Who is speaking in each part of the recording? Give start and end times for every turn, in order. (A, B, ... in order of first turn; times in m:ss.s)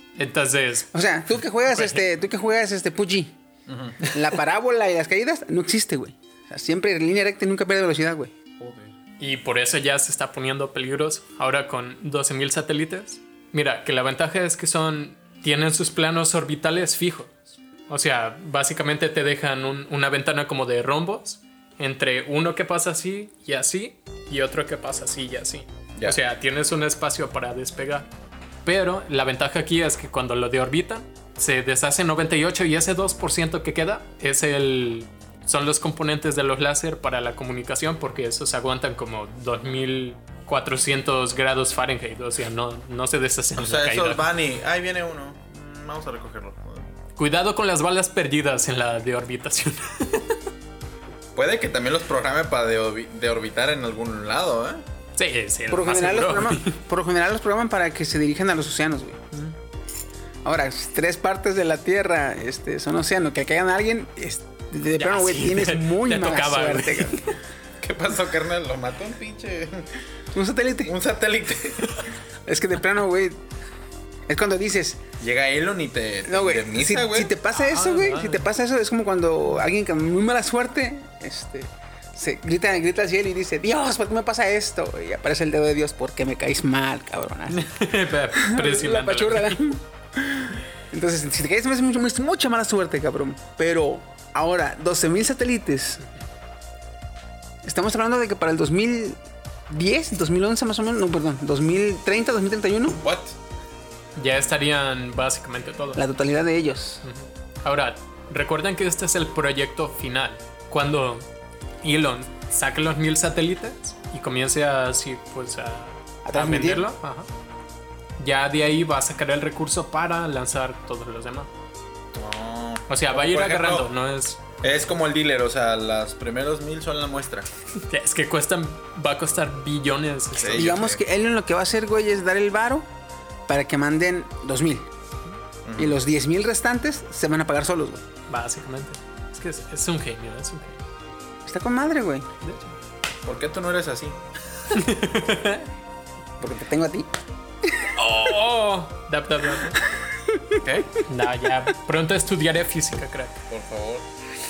0:00.2-0:00.9 A
0:00.9-0:03.4 B
0:01.7-0:02.0 A
0:03.7-0:04.0 C
0:04.1-0:08.3 B
0:08.6-0:08.9 C
0:09.2-0:17.3 A
0:17.9-0:28.1 A
0:28.6-0:44.3 A
0:43.6-0:46.9 C
0:47.2-0:50.4 A
0:51.4-0:54.8 C
0:55.2-0:56.8 A
0:55.7-0:59.2 B
1:00.4-1:07.2 B
1:05.0-1:07.4 A
1:07.8-1:09.9 C
1:10.3-1:10.9 B
1:10.8-1:12.1 C
1:12.4-1:13.4 B
1:14.3-1:15.0 B
1:15.2-1:17.3 C
1:16.2-1:27.7 B
1:17.5-1:18.5 A
1:27.5-1:29.7 A
1:28.3-1:36.0 B
1:37.6-1:43.0 B
1:43.0-1:43.4 C
1:44.2-1:46.0 A
1:46.0-1:47.0 B
1:47.0-1:51.3 A
1:51.8-1:57.3 A
1:56.2-1:56.9 B
1:58.2-2:01.5 A
2:02.1-2:03.9 C
2:02.9-2:04.4 A
2:04.6-2:07.5 C
2:07.8-2:10.8 A
2:10.4-2:11.0 C
2:10.5-2:12.8 B
2:13.5-2:14.9 B
2:15.6-2:16.0 C
2:15.8-2:18.0 B
2:18.3-2:20.8 A
2:21.4-2:22.3 B
2:22.4-2:22.8 A
2:23.2-2:24.2 C
2:24.7-2:25.7 A
2:26.4-2:27.1 B
2:27.6-2:27.9 B
2:28.0-2:29.8 A
2:30.3-2:30.6 B
2:30.6-2:31.0 C
2:31.0-2:33.4 A
2:33.5-2:34.0 C